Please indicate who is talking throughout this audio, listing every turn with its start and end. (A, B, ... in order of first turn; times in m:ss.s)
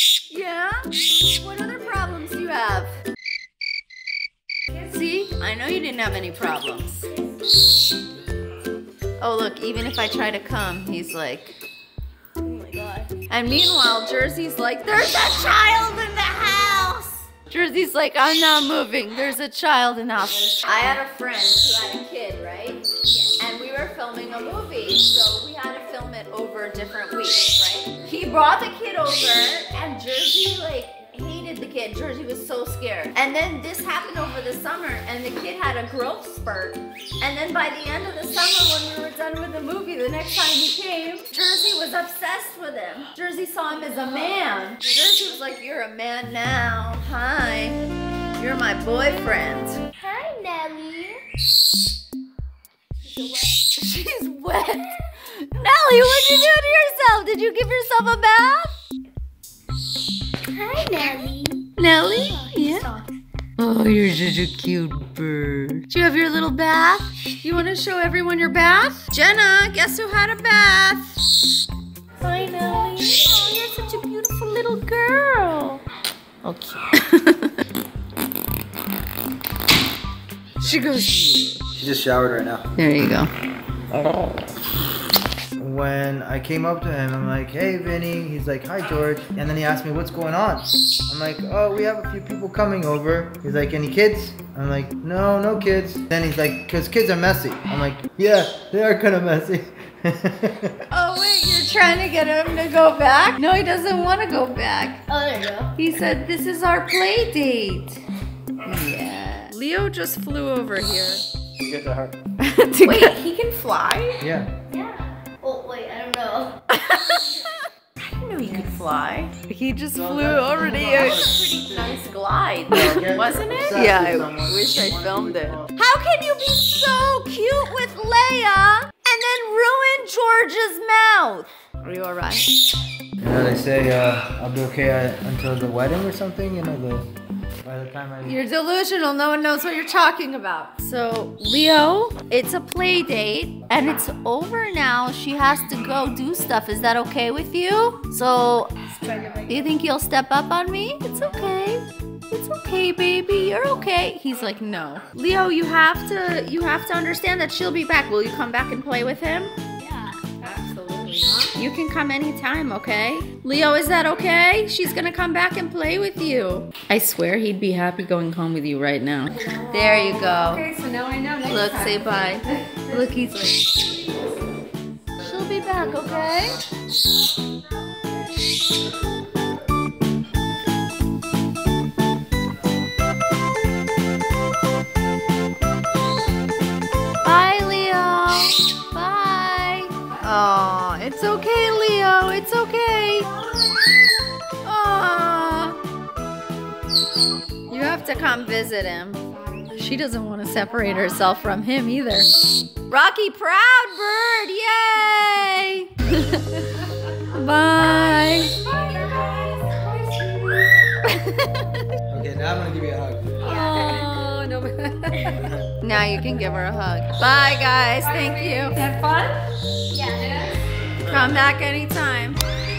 0:00.3-0:02.9 A
0:04.7-0:07.1 A
0:09.2-0:11.6 A
0:12.4-0:13.1 B
0:13.3-0:22.9 A
0:23.1-0:23.4 B
0:23.4-0:47.8 A
0:48.4-0:49.8 A
0:50.0-0:51.2 B
0:53.0-0:53.6 B
0:53.7-0:58.7 A
1:00.5-1:01.6 B
1:01.8-1:02.9 A
1:02.2-1:03.2 B
1:03.6-1:11.4 A
1:12.2-1:15.8 A
1:12.3-1:13.0 B
1:16.4-1:17.6 A
1:20.6-1:21.0 C
1:20.6-1:21.6 A
1:21.7-1:22.7 C
1:22.8-1:23.3 A
1:23.9-1:24.4 A
1:25.6-1:40.8 C
1:40.9-1:45.0 A
1:45.1-1:45.7 B
1:45.8-1:48.0 A
1:48.6-1:51.2 A
1:51.6-1:52.2 C
1:52.4-1:54.2 A
1:52.9-1:53.2 B
1:54.2-1:54.5 C
1:54.7-1:56.6 B
1:56.7-2:12.5 A
1:59.9-2:02.0 C
2:02.7-2:05.7 C
2:13.2-2:17.1 C
2:17.6-2:18.4 C
2:18.2-2:28.8 A
2:28.9-2:29.5 B
2:29.5-2:39.6 A
2:39.8-2:40.4 B
2:40.5-2:41.3 D
2:41.4-2:50.7 A
2:49.6-2:52.0 D
2:51.4-2:53.8 A
2:55.2-2:56.6 A
2:55.6-2:56.1 C
3:07.2-3:13.3 A
3:14.6-3:15.8 A
3:17.7-3:22.3 A
3:22.9-3:28.7 A
3:28.5-3:30.8 D
3:31.0-3:31.9 A
3:32.1-3:33.4 C
3:33.4-3:34.1 B
3:33.5-3:35.4 D
3:33.5-3:34.3 A
3:35.1-3:38.9 A
3:35.3-3:35.8 C
3:38.7-3:39.5 D
3:39.9-3:40.7 B
3:40.2-3:40.5 D
3:41.0-3:42.4 A